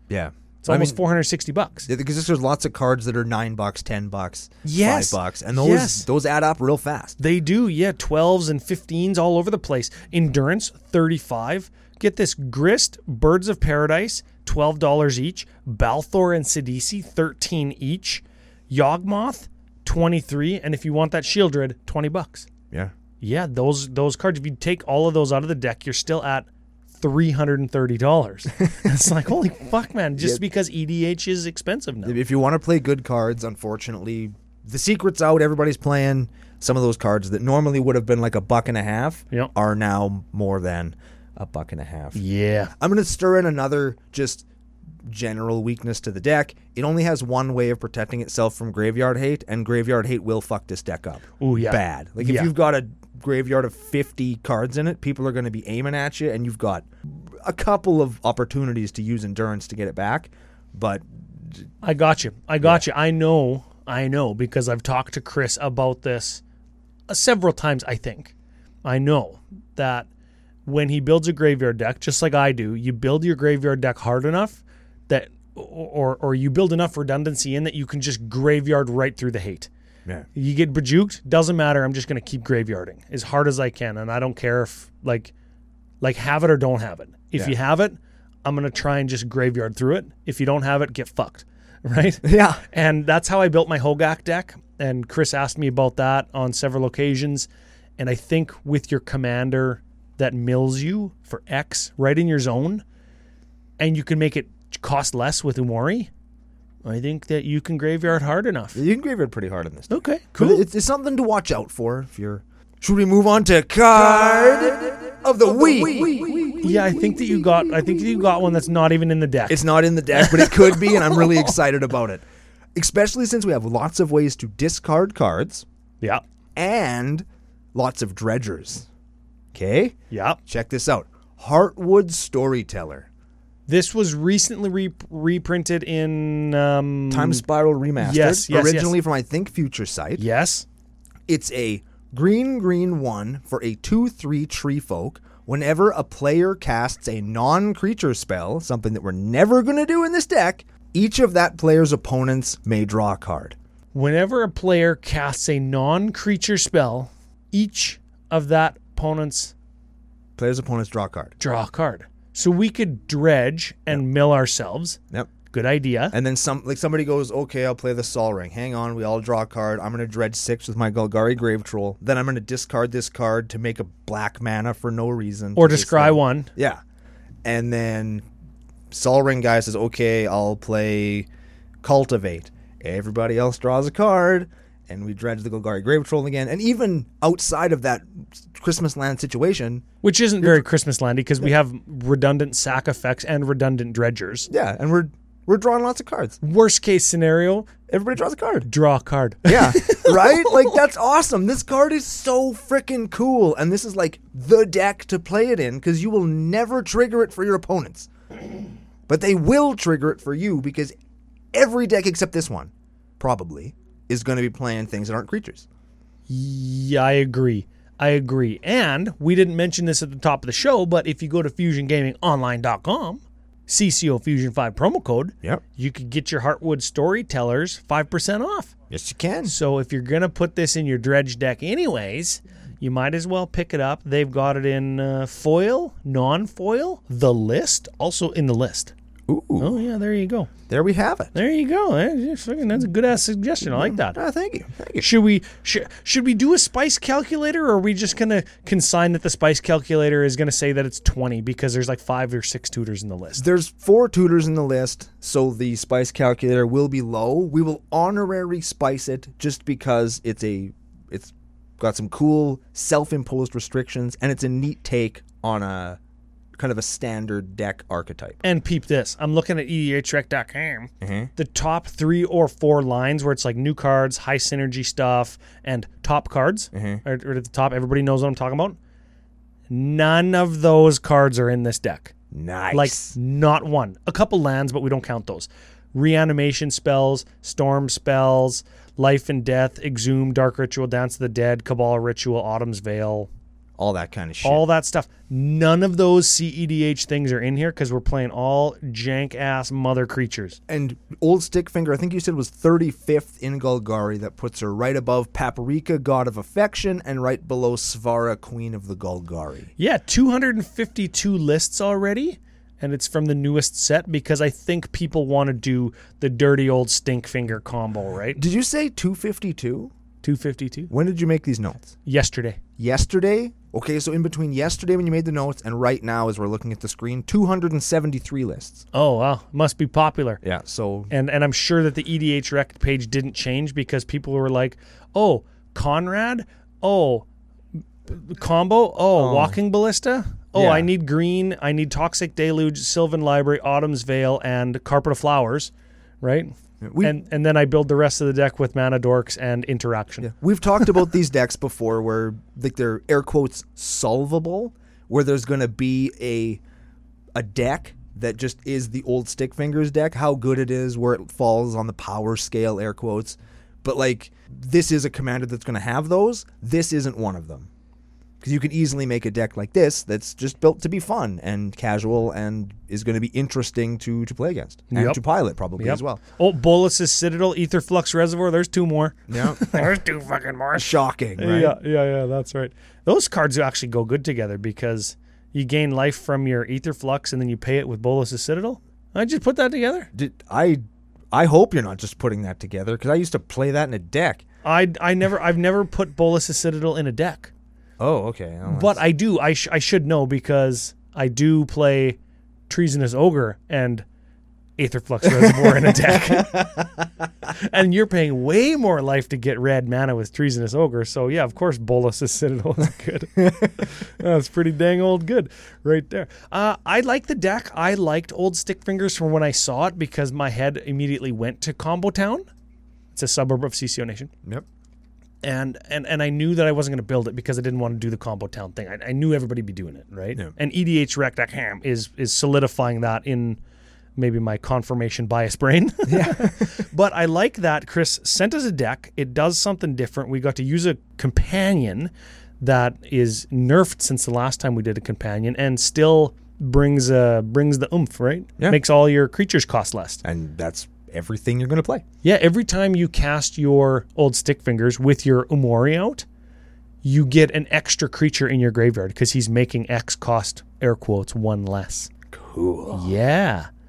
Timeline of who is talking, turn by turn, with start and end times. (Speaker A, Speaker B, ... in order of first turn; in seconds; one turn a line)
Speaker A: 0.1-1.0
Speaker B: 0.6-1.9
Speaker A: 1.9-7.2
Speaker B: 4.6-6.1
Speaker B: 7.2-22.5
Speaker B: 23.2-32.2
Speaker A: 32.0-42.2
Speaker B: 42.1-42.7
Speaker A: 42.8-44.5
Speaker A: 45.1-61.7
Speaker B: 51.4-52.5
Speaker B: 61.8-66.4
Speaker B: 67.1-70.1
Speaker B: 70.7-79.7
Speaker B: 80.3-85.3
Speaker B: 86.0-102.8
Speaker A: 92.2-92.6
Speaker B: 103.8-106.1
Speaker B: 106.8-108.8
Speaker A: 108.8-117.1
Speaker B: 109.9-110.7
Speaker B: 116.6-121.5
Speaker A: 119.5-122.2
Speaker A: 122.8-125.7
Speaker A: 126.6-128.9
Speaker A: 129.5-133.1
Speaker B: 130.1-130.4
Speaker B: 133.7-137.4
Speaker A: 137.1-140.2
Speaker B: 138.0-139.0
Speaker B: 140.2-140.7
Speaker A: 141.3-153.6
Speaker B: 153.9-159.5
Speaker A: 160.4-161.3
Speaker B: 161.4-165.0
Speaker B: 165.5-166.2
Speaker A: 166.1-176.8
Speaker B: 175.6-176.5
Speaker A: 177.4-178.2
Speaker A: 178.9-181.3
Speaker A: 181.8-189.9
Speaker B: 190.0-194.5
Speaker A: 194.5-196.4
Speaker B: 196.4-197.7
Speaker A: 197.9-198.7
Speaker B: 198.7-200.8
Speaker A: 199.5-208.1
Speaker A: 209.1-210.9
Speaker A: 211.5-215.7
Speaker B: 216.3-228.7
Speaker A: 228.9-229.6
Speaker B: 229.5-238.9
Speaker A: 239.3-239.8
Speaker B: 239.6-240.5
Speaker A: 240.7-241.3
Speaker B: 241.3-244.2
Speaker A: 243.7-245.1
Speaker B: 245.0-253.4
Speaker A: 253.3-266.0
Speaker A: 266.6-268.4
Speaker B: 268.4-278.8
Speaker A: 271.0-271.3
Speaker A: 276.7-277.0
Speaker B: 279.7-282.1
Speaker A: 282.3-283.1
Speaker B: 282.7-293.3
Speaker A: 293.8-294.6
Speaker B: 294.4-300.6
Speaker A: 300.7-309.7
Speaker B: 309.8-318.4
Speaker A: 318.4-319.9
Speaker B: 320.2-320.9
Speaker A: 320.9-321.9
Speaker B: 322.1-322.6
Speaker A: 322.8-328.9
Speaker B: 328.9-330.4
Speaker A: 330.4-331.1
Speaker B: 331.1-337.3
Speaker B: 338.1-350.3
Speaker A: 339.2-339.6
Speaker A: 340.6-340.9
Speaker A: 346.8-347.1
Speaker A: 350.2-356.6
Speaker A: 357.4-367.7
Speaker A: 368.4-376.2
Speaker B: 374.9-375.2
Speaker B: 375.8-390.1
Speaker A: 379.3-379.6
Speaker A: 380.8-381.8
Speaker A: 390.1-390.8
Speaker A: 391.3-394.4
Speaker B: 394.6-397.5
Speaker A: 398.0-399.0
Speaker B: 398.7-404.1
Speaker B: 404.8-406.9
Speaker A: 405.3-407.0
Speaker B: 407.5-422.4
Speaker A: 413.4-413.8
Speaker B: 423.1-424.3
Speaker B: 425.4-433.6
Speaker B: 434.2-450.2
Speaker A: 436.1-436.8
Speaker A: 450.2-452.1
Speaker B: 452.2-456.2
Speaker B: 457.0-462.1
Speaker A: 462.3-463.1
Speaker B: 462.9-463.7